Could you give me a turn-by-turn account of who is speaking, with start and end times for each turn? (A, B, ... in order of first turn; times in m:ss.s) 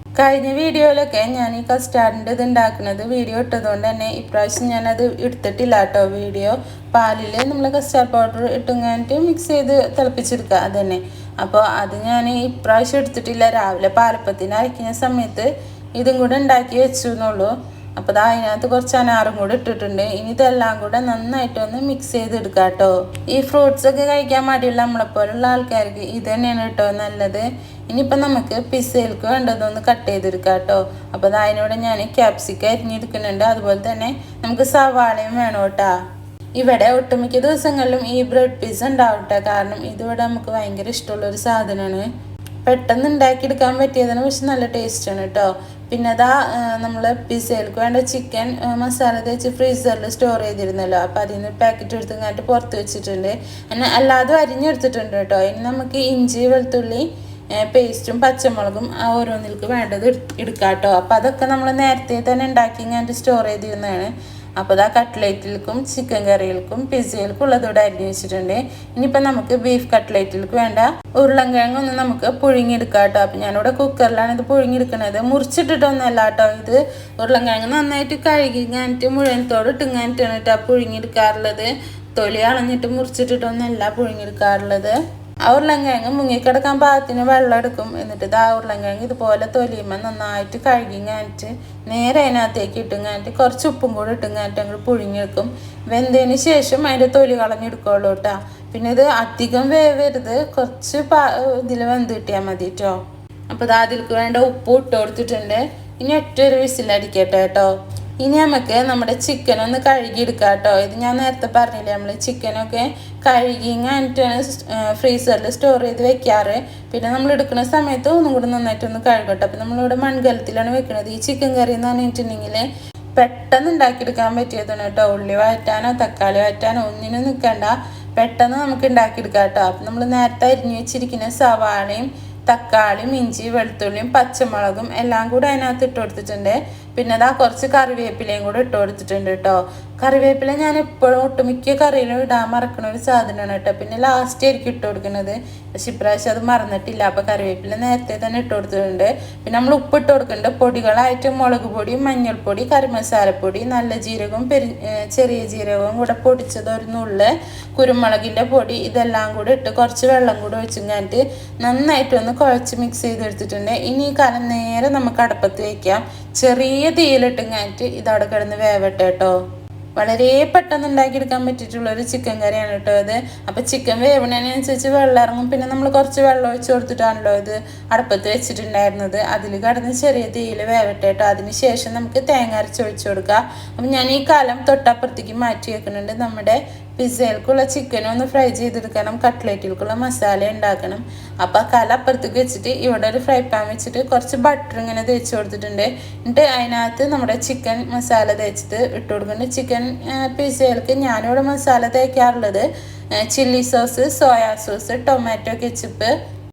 0:00.2-0:35.9 A
0:36.6-0:42.1 A
0:42.6-0:57.0 A
0:57.6-1:24.9 A
1:25.4-1:43.0 A
1:43.5-1:47.7 A
1:48.2-2:02.6 A
2:03.2-2:49.3 A
2:50.0-3:22.6 A
3:23.2-3:26.1 A